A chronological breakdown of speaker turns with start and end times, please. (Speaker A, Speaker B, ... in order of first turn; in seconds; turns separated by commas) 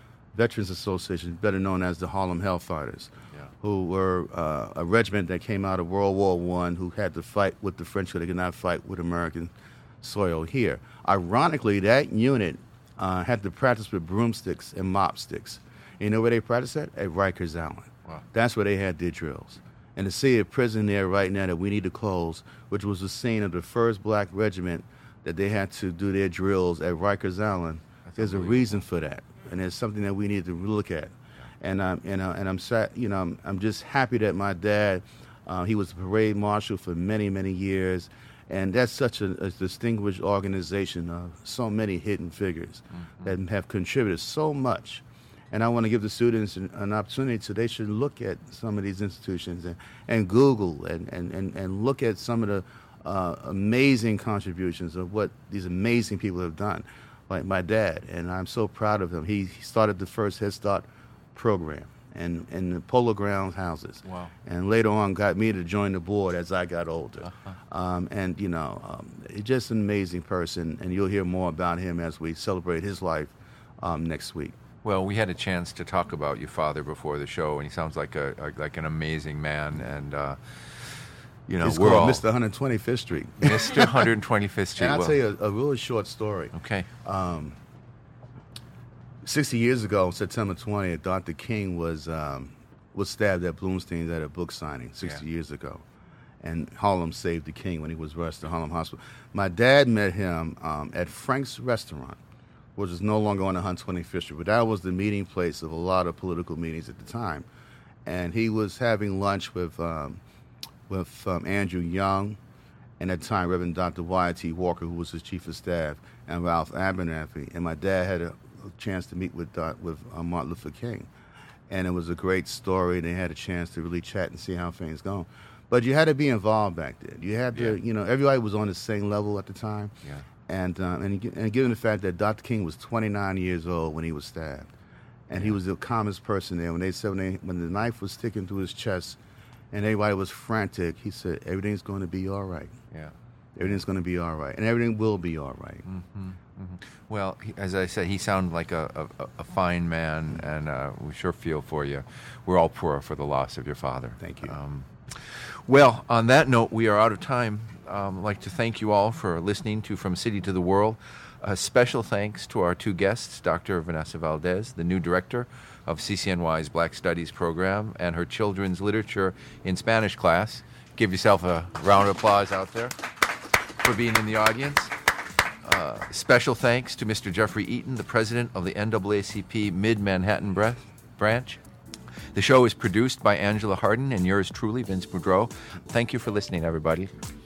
Speaker A: 0.3-74.6, Speaker B: 28.1-28.6, Speaker B: 64.0-64.3, Speaker B: 74.8-82.2, Speaker A: 81.6-84.1, Speaker B: 83.4-85.2, Speaker A: 84.8-87.6, Speaker B: 86.5-86.9, Speaker A: 89.2-95.8, Speaker A: 96.4-102.2, Speaker A: 102.8-107.5, Speaker A: 108.0-110.2, Speaker A: 110.9-112.4, Speaker A: 113.0-121.1, Speaker A: 121.7-129.9, Speaker B: 127.5-127.8, Speaker A: 130.5-134.7, Speaker A: 135.3-139.2, Speaker A: 139.7-142.8, Speaker A: 143.6-145.8, Speaker B: 145.8-172.9, Speaker A: 154.2-154.6, Speaker B: 173.8-174.9, Speaker B: 175.6-181.6, Speaker B: 182.3-187.1